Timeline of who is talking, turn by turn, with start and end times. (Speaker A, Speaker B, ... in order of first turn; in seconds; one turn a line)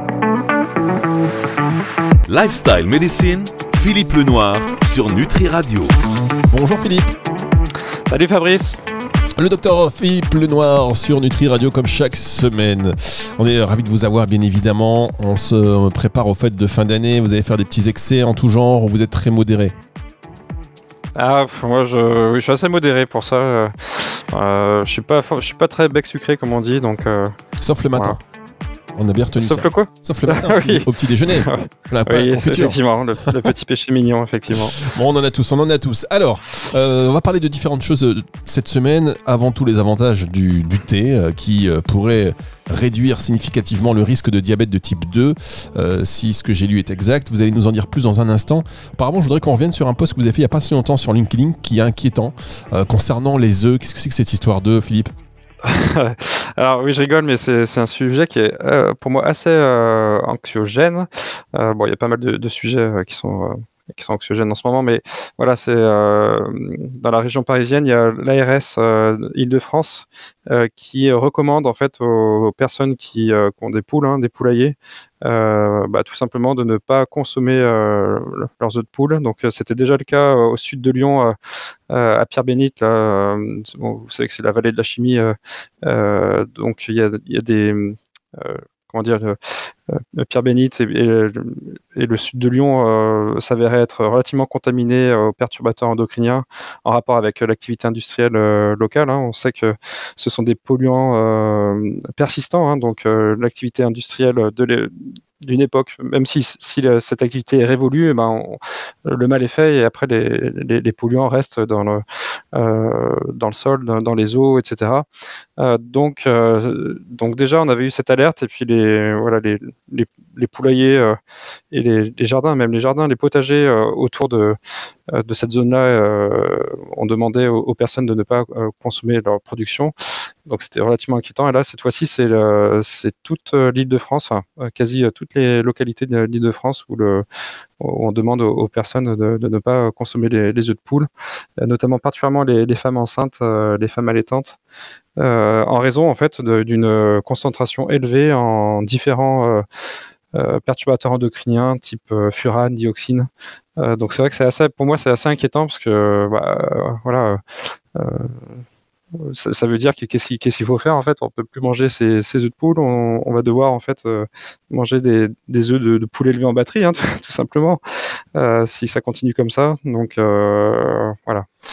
Speaker A: 2.3-5.9
Speaker B: 6.5-7.2
Speaker C: 8.1-8.8
Speaker B: 9.4-19.7
Speaker C: 21.1-27.4
Speaker B: 27.6-28.2
Speaker B: 28.9-33.4
Speaker C: 29.4-34.9
Speaker B: 34.8-55.1
Speaker C: 55.6-81.3
Speaker C: 81.9-89.4
Speaker C: 89.9-112.0
Speaker C: 112.5-115.0
Speaker C: 115.6-121.2
Speaker C: 121.7-124.6
Speaker C: 125.1-129.9
Speaker C: 130.5-137.2
Speaker C: 137.8-141.1
Speaker C: 141.6-144.6
Speaker C: 145.2-149.6
Speaker C: 150.3-157.4
Speaker C: 157.9-158.6
Speaker C: 159.2-167.8
Speaker C: 168.3-171.5